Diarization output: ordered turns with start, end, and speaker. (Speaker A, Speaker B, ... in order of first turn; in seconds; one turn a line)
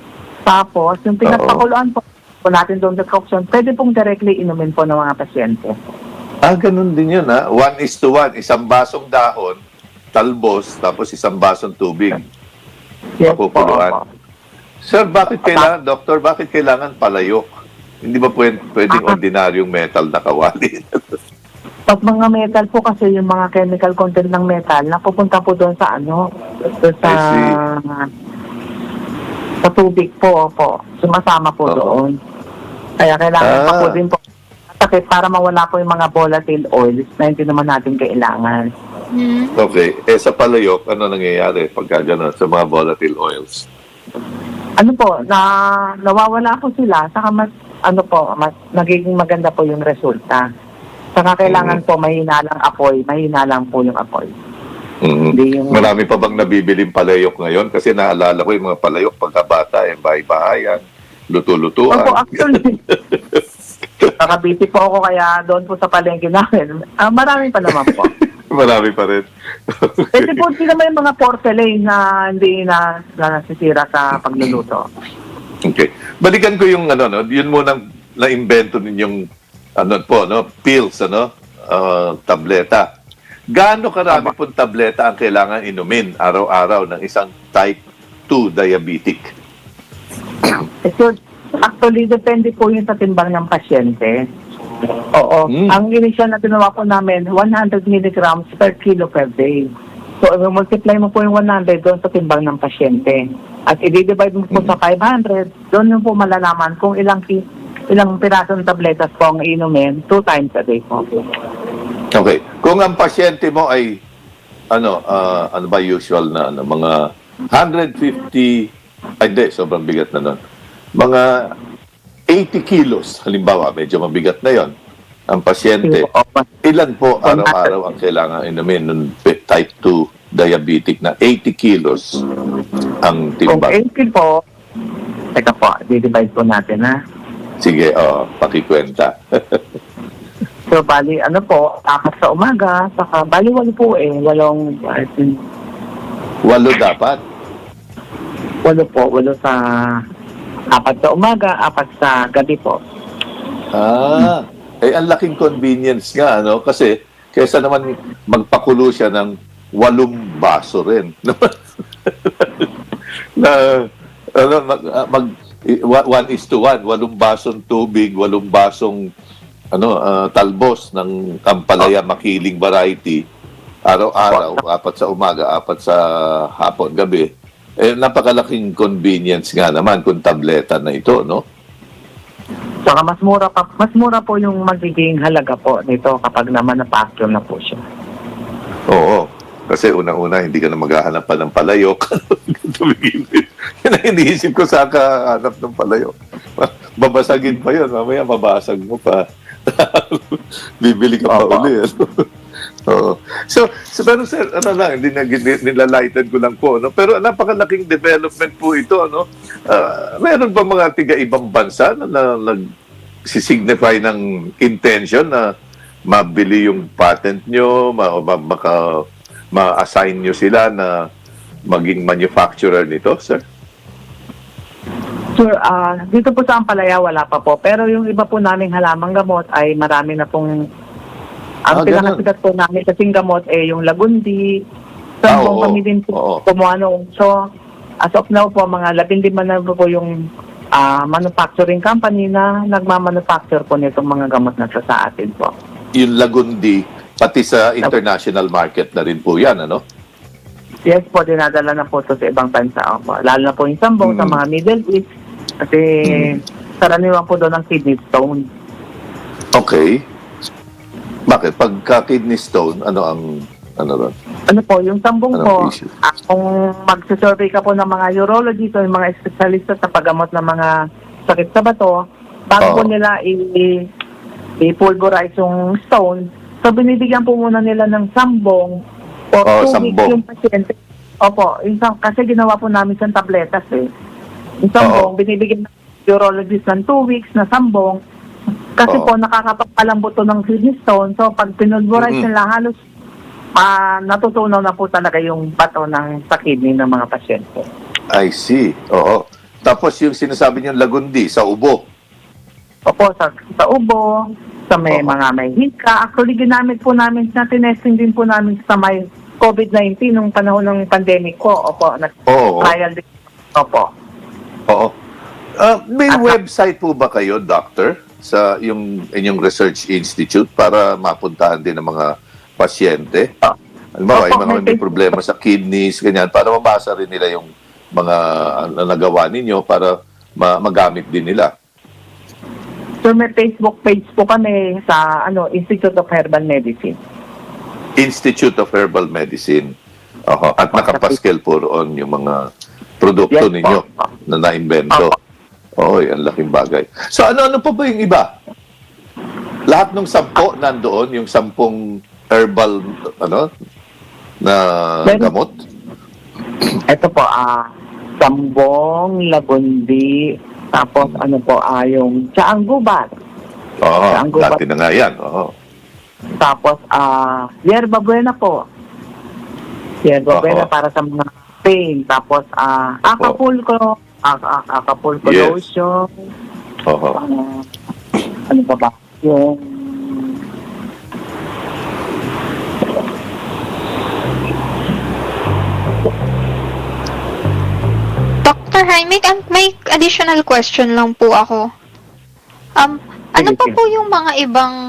Speaker A: 0.5-5.8
Speaker B: 1.2-1.6
Speaker B: 6.4-9.6
Speaker B: 10.1-12.2
Speaker A: 13.2-14.1
Speaker B: 13.3-14.0
Speaker B: 14.8-17.5
Speaker A: 15.4-15.7
Speaker B: 18.0-21.1
Speaker A: 18.9-19.2
Speaker A: 21.9-28.1
Speaker B: 27.0-27.6
Speaker A: 29.6-32.2
Speaker B: 31.7-31.9
Speaker A: 33.0-34.2
Speaker B: 33.4-34.0
Speaker A: 34.8-38.7
Speaker C: 39.1-39.6
Speaker B: 39.6-43.7
Speaker A: 44.8-50.5
Speaker A: 51.2-54.4
Speaker B: 51.5-51.8
Speaker B: 55.0-63.4
Speaker A: 55.3-55.9
Speaker A: 61.9-62.8
Speaker A: 64.2-68.1
Speaker B: 67.7-70.5
Speaker A: 70.1-74.9
Speaker B: 75.7-79.2
Speaker B: 79.8-82.9
Speaker B: 83.5-89.3
Speaker A: 90.8-94.2
Speaker A: 95.1-111.3
Speaker B: 95.5-95.8
Speaker B: 112.1-114.0
Speaker B: 114.7-118.7
Speaker B: 119.2-120.4
Speaker B: 121.0-121.5
Speaker B: 122.3-124.7
Speaker B: 125.3-126.1
Speaker A: 125.8-126.5
Speaker B: 126.6-132.2
Speaker A: 127.2-127.8
Speaker B: 133.0-133.8
Speaker A: 133.5-134.4
Speaker A: 135.3-136.9
Speaker B: 137.6-139.6
Speaker A: 140.7-145.4
Speaker B: 146.4-147.2
Speaker A: 148.7-149.6
Speaker A: 150.7-152.8
Speaker B: 153.8-161.6
Speaker B: 162.1-162.7
Speaker B: 163.4-169.0
Speaker B: 169.7-173.2
Speaker B: 173.9-177.3
Speaker A: 174.2-174.6
Speaker B: 177.8-181.4
Speaker A: 182.9-187.8
Speaker B: 188.9-202.2
Speaker A: 201.3-201.7
Speaker B: 202.9-212.6
Speaker B: 213.3-215.5
Speaker B: 216.1-221.1
Speaker B: 221.7-223.4
Speaker A: 225.4-230.5
Speaker A: 231.7-234.6
Speaker B: 231.7-232.3
Speaker A: 235.2-237.3
Speaker B: 235.3-236.4
Speaker A: 238.0-240.2
Speaker A: 240.8-245.5
Speaker B: 245.9-249.8
Speaker A: 250.9-255.1
Speaker B: 254.0-254.4
Speaker A: 255.6-258.5
Speaker B: 256.0-256.4
Speaker B: 259.5-260.0
Speaker B: 261.3-264.1
Speaker A: 264.5-270.7
Speaker B: 265.3-265.9
Speaker A: 271.3-273.9
Speaker B: 272.6-272.9
Speaker A: 274.6-278.8
Speaker A: 279.3-283.9
Speaker B: 279.4-280.2
Speaker A: 284.7-288.0
Speaker B: 284.8-285.1
Speaker A: 288.8-292.8
Speaker B: 292.0-292.3
Speaker A: 293.6-297.7
Speaker B: 298.1-301.8
Speaker A: 302.9-304.1
Speaker A: 304.7-313.9
Speaker B: 312.3-312.7
Speaker B: 315.6-323.3
Speaker A: 316.1-316.4
Speaker B: 324.0-331.5
Speaker A: 324.1-324.9
Speaker A: 333.0-337.0
Speaker B: 338.0-339.7
Speaker B: 340.3-342.5
Speaker A: 340.6-341.2
Speaker B: 343.0-345.2
Speaker A: 343.3-344.1
Speaker A: 344.9-345.2
Speaker B: 345.8-348.3
Speaker B: 349.7-353.5
Speaker B: 354.4-355.5
Speaker A: 355.1-355.3
Speaker A: 356.9-357.7
Speaker A: 358.2-363.1
Speaker B: 363.8-365.5
Speaker A: 364.1-364.6
Speaker A: 366.4-368.6
Speaker A: 370.0-376.1
Speaker B: 370.3-370.7
Speaker B: 375.2-375.6
Speaker B: 376.9-377.2
Speaker A: 377.2-377.7
Speaker A: 378.5-380.4
Speaker C: 388.4-391.7
Speaker C: 392.8-394.8
Speaker A: 393.4-393.8